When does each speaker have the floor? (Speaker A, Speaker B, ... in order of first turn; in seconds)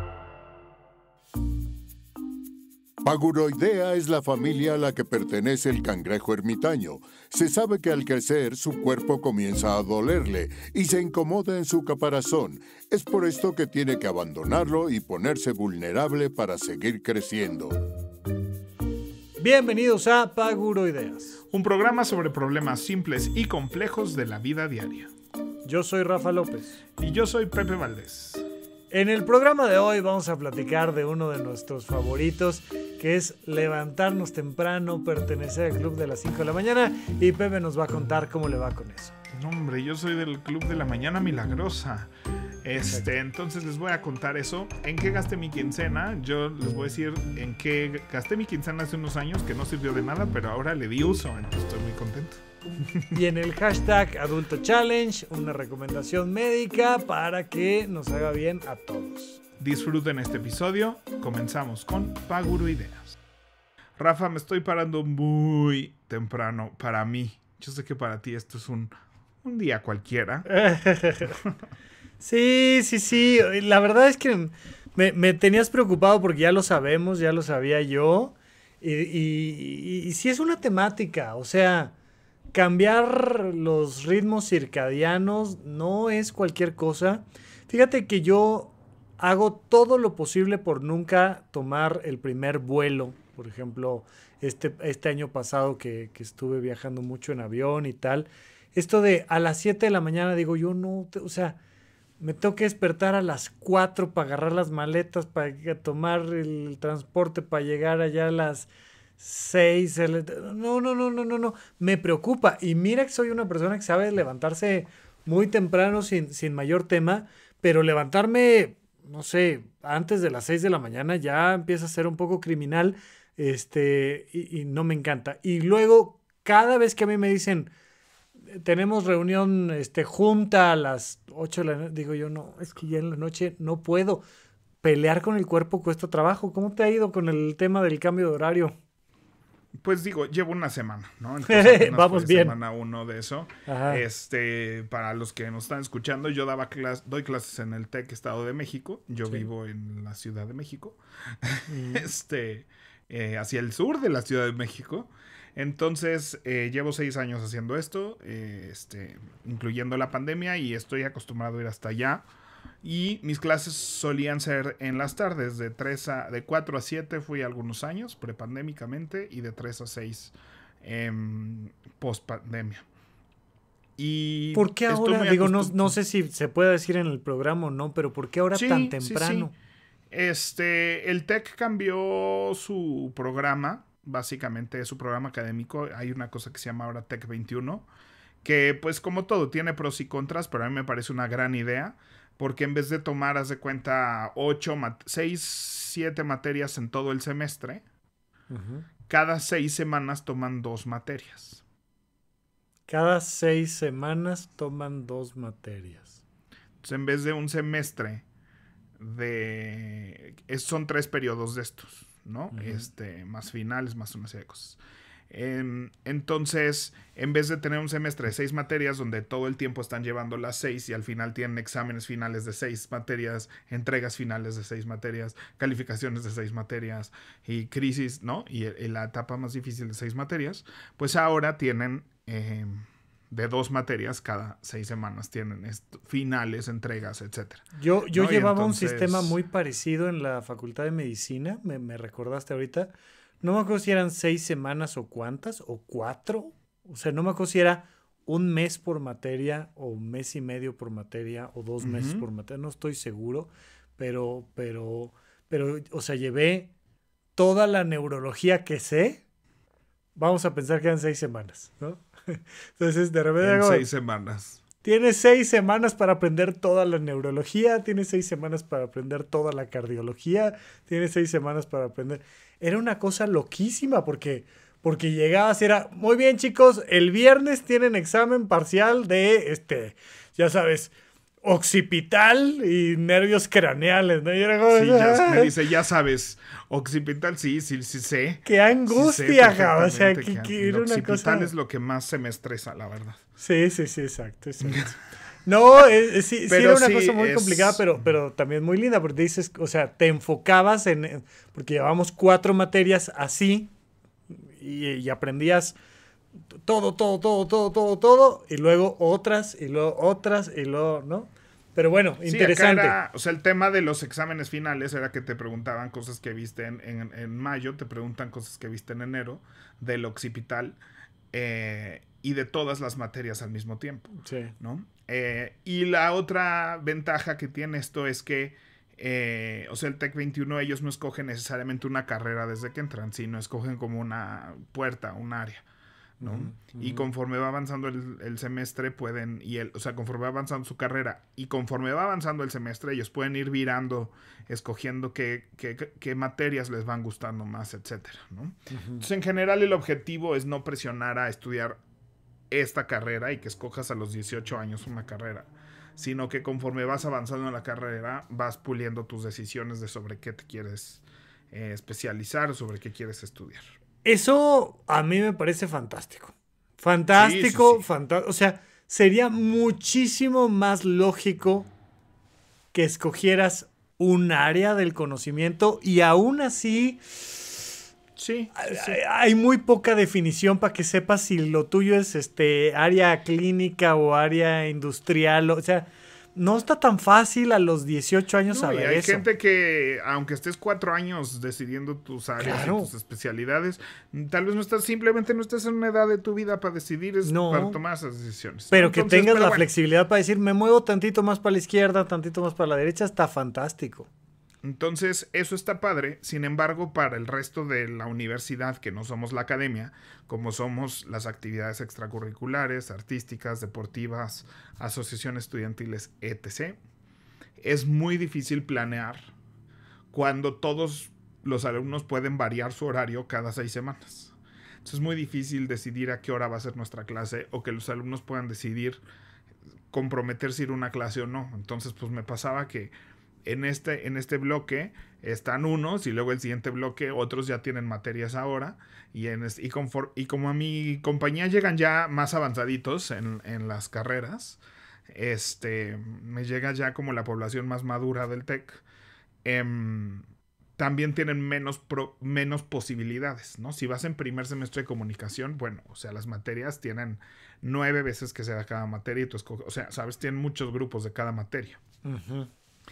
Speaker A: 3.0-17.8
Speaker B: 19.4-21.4, 25.6-26.8, 28.9-39.1, 53.1-59.4, 70.5-71.4, 72.2-81.9, 82.5-101.6, 102.2-127.7, 128.5-134.2, 134.8-138.8, 141.5-142.6, 143.7-144.0, 151.7-152.1, 174.5-179.5, 198.5-198.9, 202.9-206.2, 212.5-212.8, 237.8-256.7, 257.4-259.2, 260.2-263.9, 264.8-280.9, 281.4-285.5, 288.4-291.5, 293.4-294.9, 295.4-303.7, 304.5-305.8, 306.6-313.0, 324.2-324.5, 336.2-337.1, 348.7-349.1, 364.0-371.7, 372.7-377.6, 378.6-389.2, 392.4-392.9, 397.2-397.8, 398.7-404.1, 462.0-462.5
Speaker C: 21.5-25.1, 27.0-28.5, 39.3-42.1, 42.6-53.2, 59.6-63.2, 64.0-70.5, 139.7-162.2, 162.8-172.8, 174.0-175.9, 178.5-179.5, 180.1-187.9, 188.4-197.8, 199.1-201.6, 206.8-208.2, 209.0-239.4, 251.8-252.2, 263.4-264.6, 284.7-293.2, 296.5-298.0, 312.3-320.8, 321.3-335.6, 336.2-351.8, 352.5-363.6, 367.2-367.8, 378.2-379.0, 388.5-399.7, 404.6-416.8, 417.6-419.3, 420.1-429.0, 429.9-432.9, 433.4-448.8, 449.4-450.3, 450.8-461.8